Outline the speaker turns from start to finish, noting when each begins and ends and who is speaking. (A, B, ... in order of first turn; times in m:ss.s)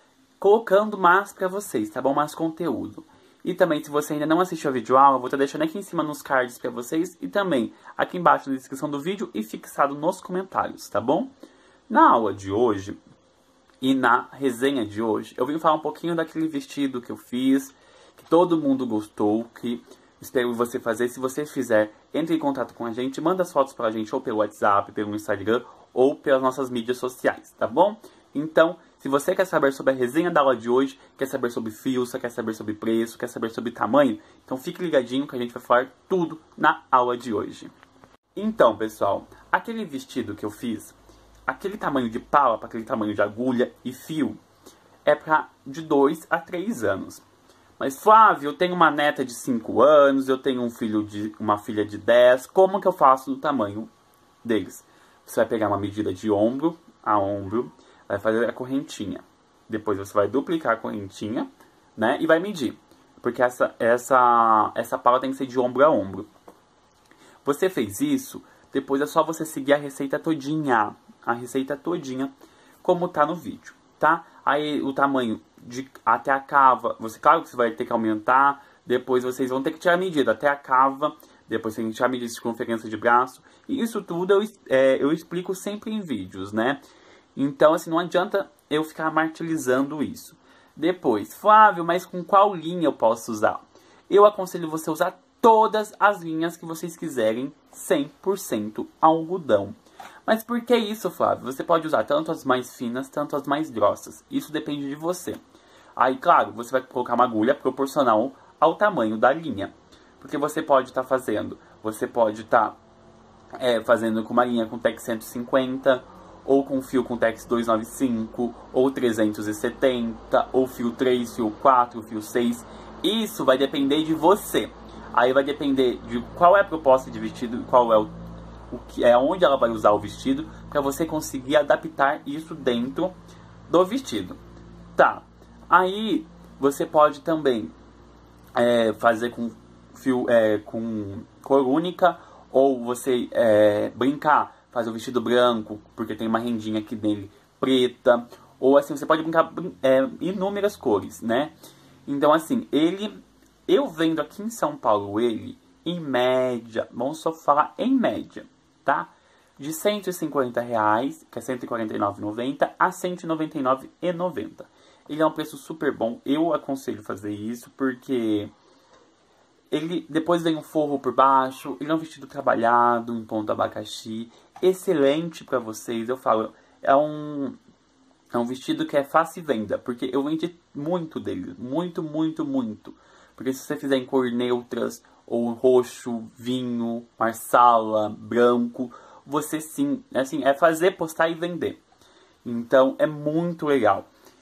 0:00.4-0:11.3 A
0:11.9-0:13.0 A
0:13.8-0:37.7 A
0:38.4-0:40.9 A
0:41.5-0:44.4 A
0:45.0-0:47.2 A
0:47.8-0:53.9 A
0:54.4-1:06.3 A
1:07.4-1:12.3 A
1:12.8-1:26.8 A
1:27.4-1:45.4 A
1:46.0-1:52.8 A
1:53.6-2:08.1 A
2:08.7-2:13.1 A
2:13.7-2:14.4 A
2:14.9-2:17.7 A
2:18.5-2:31.5 A
2:32.0-2:48.5 A
2:49.7-2:57.6 A
2:58.3-3:11.8 A
3:12.4-3:14.1 A